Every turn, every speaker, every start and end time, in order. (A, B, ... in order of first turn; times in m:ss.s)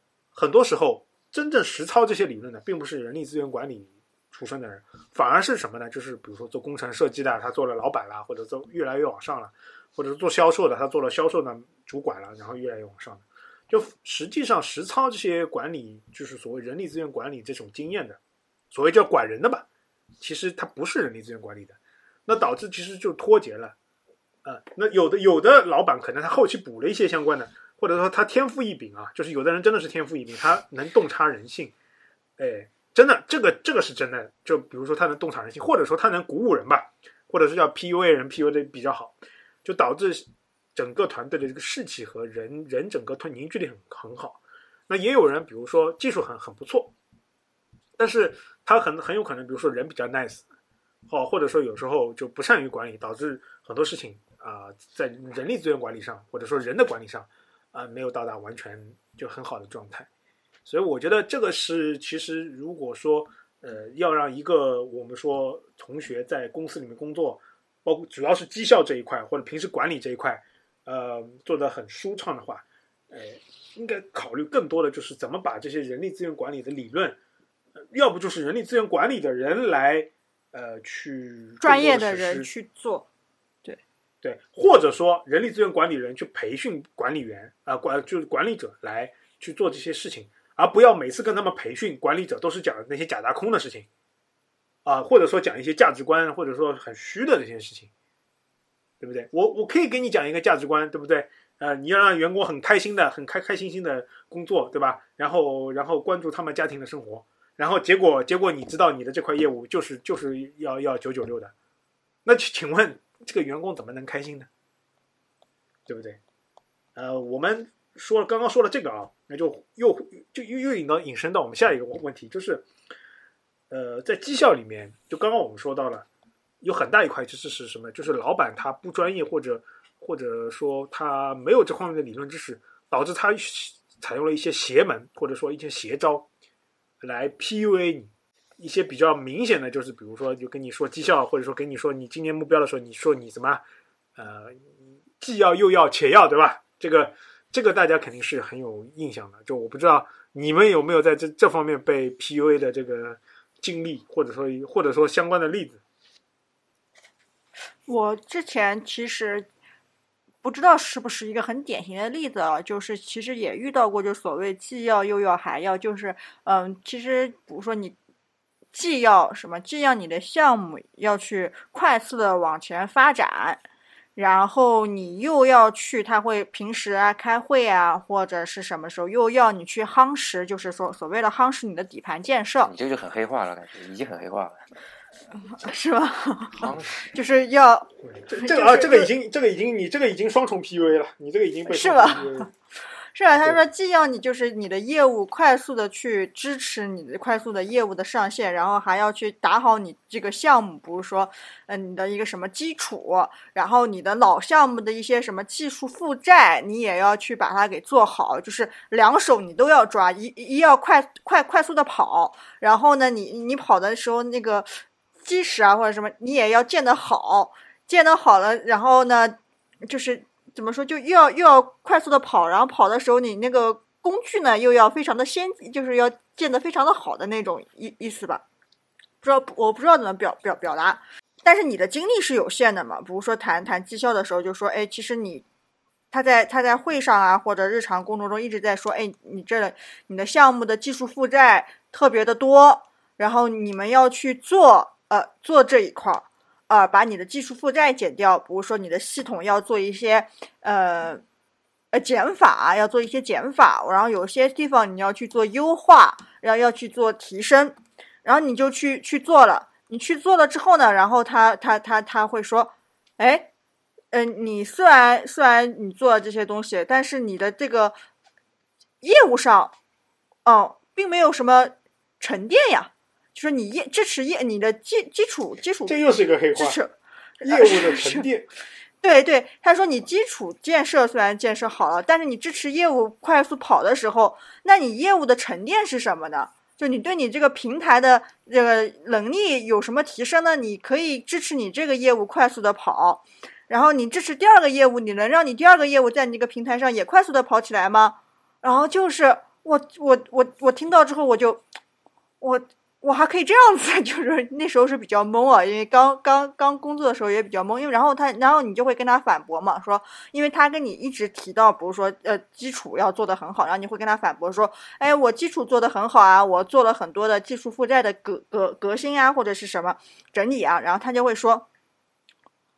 0:00.3-0:18.2 A
0:18.7-0:19.7 A
0:20.2-0:23.8 A
0:24.4-0:31.7 A
0:32.4-0:46.9 A
0:48.0-0:50.4 A
0:51.1-1:00.1 A
1:00.6-1:17.2 A
1:17.8-1:22.5 A
1:21.6-1:23.1 B
1:24.2-1:33.9 A
1:34.8-1:37.9 A
1:39.0-1:51.5 A
1:52.2-1:54.5 A
1:55.9-1:56.2 A
1:57.0-2:02.7 A
2:03.7-2:06.1 A
2:06.6-2:16.3 A
2:17.0-2:23.6 A
2:24.2-2:35.8 A
2:37.9-2:39.5 B
2:40.4-2:48.0 B
2:48.7-2:53.6 B
2:54.2-3:02.7 B
3:02.6-3:04.6 C
3:05.5-3:09.1 B
3:06.5-3:07.1 C
3:08.0-3:12.5 A
3:11.7-3:12.5 B
3:13.1-3:48.4 B
3:49.2-3:55.4 B
3:56.1-4:11.2 B
4:11.9-4:23.5 B
4:24.1-4:28.0 B
4:29.0-4:29.7 B
4:30.4-4:36.0 B
4:35.9-4:36.8 A
4:36.5-4:38.3 B
4:37.4-4:38.5 A
4:39.0-5:01.6 B
5:02.4-5:21.7 B